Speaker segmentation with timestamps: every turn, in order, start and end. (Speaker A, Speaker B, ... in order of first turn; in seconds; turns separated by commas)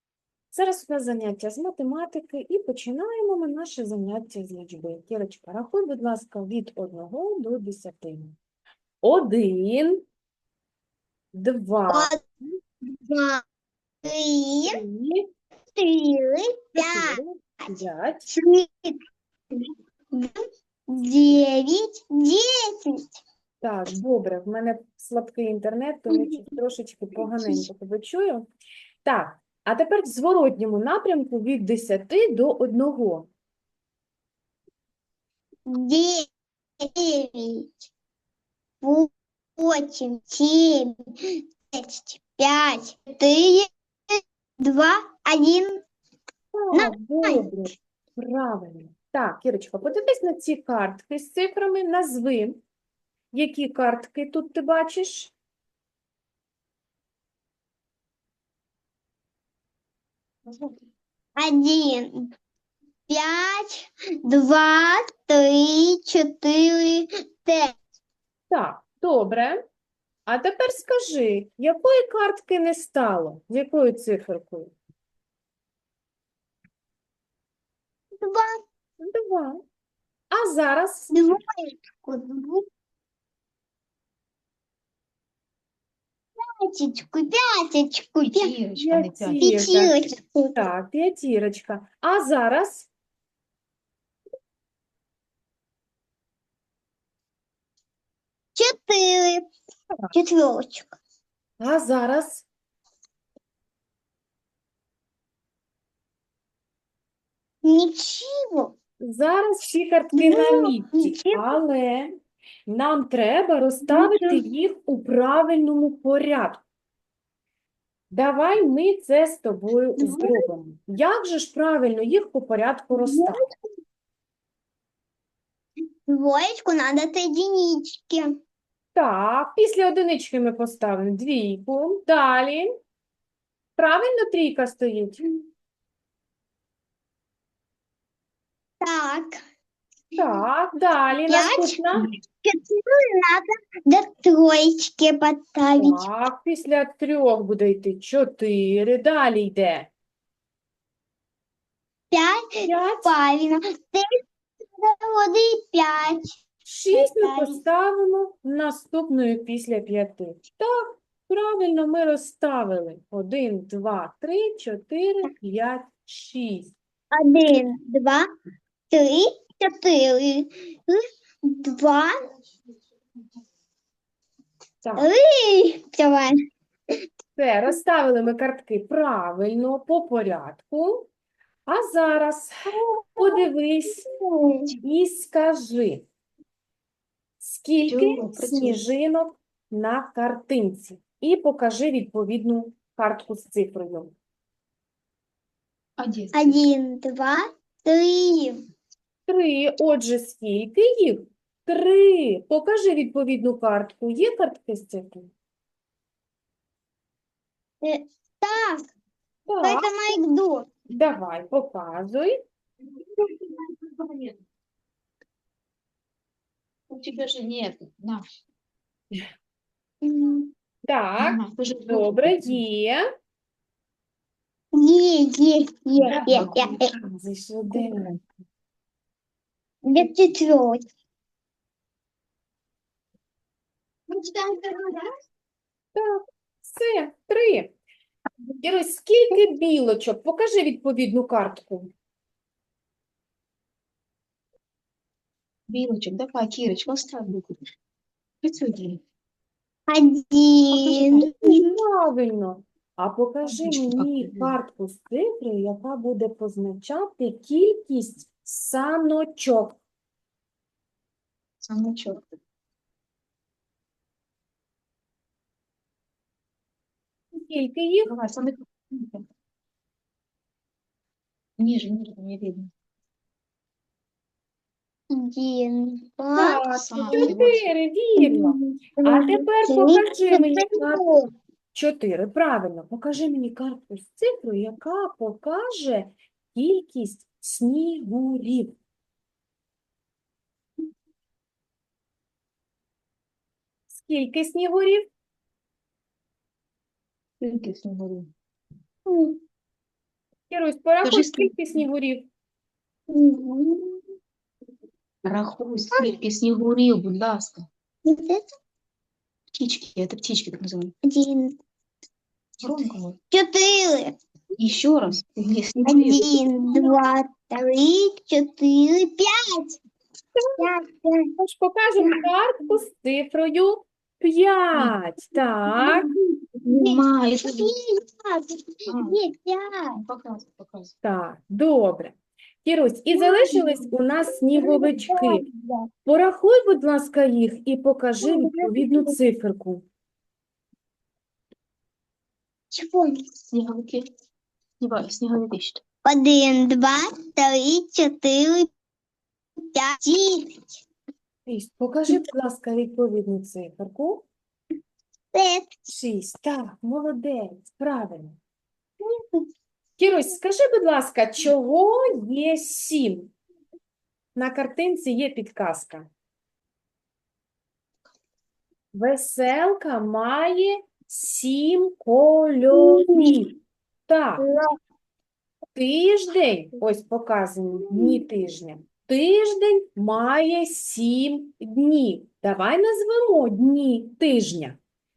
Speaker A: 0.5-8.4, Speaker A: 9.0-10.0, Speaker A: 11.3-12.1, Speaker B: 11.9-12.2, Speaker B: 13.0-13.4, Speaker B: 14.0-14.8, Speaker A: 14.6-15.2, Speaker B: 15.8-17.2, Speaker A: 16.8-18.3, Speaker B: 18.3-19.0, Speaker B: 20.1-20.4, Speaker B: 20.9-23.1, Speaker A: 23.6-28.5, Speaker B: 26.1-26.4, Speaker B: 27.2-27.6, Speaker A: 29.0-33.3, Speaker B: 35.6-36.3, Speaker B: 36.8-37.7, Speaker B: 38.8-45.8, Speaker A: 46.5-52.6, Speaker B: 46.7-47.5, Speaker A: 53.3-55.3, Speaker B: 61.4-62.3, Speaker B: 63.1-67.7, Speaker A: 68.5-69.6, Speaker A: 70.2-74.8, Speaker B: 78.2-78.6, Speaker A: 79.0-79.6, Speaker A: 80.3-81.2, Speaker B: 81.1-82.6, Speaker B: 86.4-88.5, Speaker C: 88.2-89.5, Speaker A: 88.8-90.0, Speaker B: 89.4-90.7, Speaker A: 90.5-92.9, Speaker B: 98.5-99.5, Speaker B: 100.1-100.9, Speaker A: 101.6-102.5, Speaker B: 107.6-108.7, Speaker A: 109.0-112.1, Speaker B: 110.1-111.5, Speaker A: 112.7-116.6, Speaker B: 113.8-114.4, Speaker A: 118.1-123.4, Speaker B: 120.0-120.5, Speaker B: 122.9-123.4, Speaker B: 126.1-128.3, Speaker A: 128.9-132.7, Speaker A: 133.8-135.2, Speaker B: 138.8-139.4, Speaker A: 140.2-142.1, Speaker B: 141.3-146.0, Speaker A: 145.8-149.9, Speaker B: 152.1-154.1, Speaker A: 152.7-153.1, Speaker B: 154.8-156.3, Speaker A: 156.6-166.7, Speaker B: 156.9-157.6, Speaker B: 167.1-168.2, Speaker B: 168.9-172.1, Speaker A: 174.8-175.1, Speaker B: 175.0-176.3, Speaker A: 177.3-181.1, Speaker A: 181.7-182.5, Speaker B: 182.7-183.4, Speaker A: 183.2-184.1, Speaker B: 184.1-184.7, Speaker A: 184.8-186.0, Speaker A: 187.4-194.1, Speaker C: 187.8-188.8, Speaker C: 196.0-196.6, Speaker B: 196.3-198.6, Speaker A: 199.3-205.3, Speaker B: 207.8-208.8, Speaker A: 209.5-209.9, Speaker B: 209.6-210.7, Speaker A: 210.9-212.4, Speaker C: 213.8-214.3, Speaker C: 216.9-218.3, Speaker B: 220.0-220.5, Speaker A: 220.8-223.0, Speaker C: 221.2-222.6, Speaker B: 224.7-226.9, Speaker A: 226.0-228.0, Speaker C: 226.2-226.7, Speaker C: 227.7-228.2, Speaker B: 229.8-230.8, Speaker B: 234.1-235.1, Speaker A: 235.9-237.7, Speaker A: 238.6-241.9, Speaker C: 245.7-247.7, Speaker C: 248.4-249.0, Speaker B: 249.9-251.7, Speaker C: 250.7-251.3, Speaker A: 251.4-259.8, Speaker C: 253.4-254.6, Speaker C: 261.6-262.3, Speaker A: 267.3-268.1, Speaker C: 268.1-269.2, Speaker C: 271.6-272.7, Speaker B: 275.1-277.3, Speaker A: 276.3-281.1, Speaker C: 276.7-277.7, Speaker B: 278.2-281.2, Speaker A: 281.7-288.8, Speaker A: 293.9-295.1, Speaker C: 297.4-298.3, Speaker B: 299.1-299.4, Speaker A: 300.5-302.3, Speaker C: 301.0-301.6, Speaker B: 303.1-304.0, Speaker C: 305.2-307.7, Speaker B: 308.0-308.4, Speaker C: 309.5-310.9, Speaker B: 311.0-311.6, Speaker C: 312.6-313.2, Speaker B: 313.3-314.1, Speaker C: 314.6-316.3, Speaker B: 315.9-319.8, Speaker A: 320.4-320.6, Speaker B: 320.6-321.3, Speaker A: 321.4-326.0, Speaker B: 325.7-326.2, Speaker C: 326.6-327.7, Speaker B: 326.7-330.0, Speaker C: 328.9-329.2, Speaker C: 329.9-330.9, Speaker A: 331.0-335.4, Speaker B: 333.1-335.9, Speaker A: 336.0-339.8, Speaker B: 338.2-339.1, Speaker B: 342.7-343.2, Speaker C: 343.5-344.1, Speaker C: 344.8-345.8, Speaker B: 346.0-348.6, Speaker B: 349.7-350.8, Speaker A: 351.5-354.3, Speaker B: 355.3-355.8, Speaker A: 355.9-358.4, Speaker B: 359.0-359.5, Speaker A: 360.0-363.3, Speaker A: 364.3-366.1, Speaker A: 368.9-373.5, Speaker B: 372.7-373.4, Speaker A: 374.1-374.4, Speaker B: 374.4-374.7, Speaker A: 375.7-384.8, Speaker B: 377.9-378.2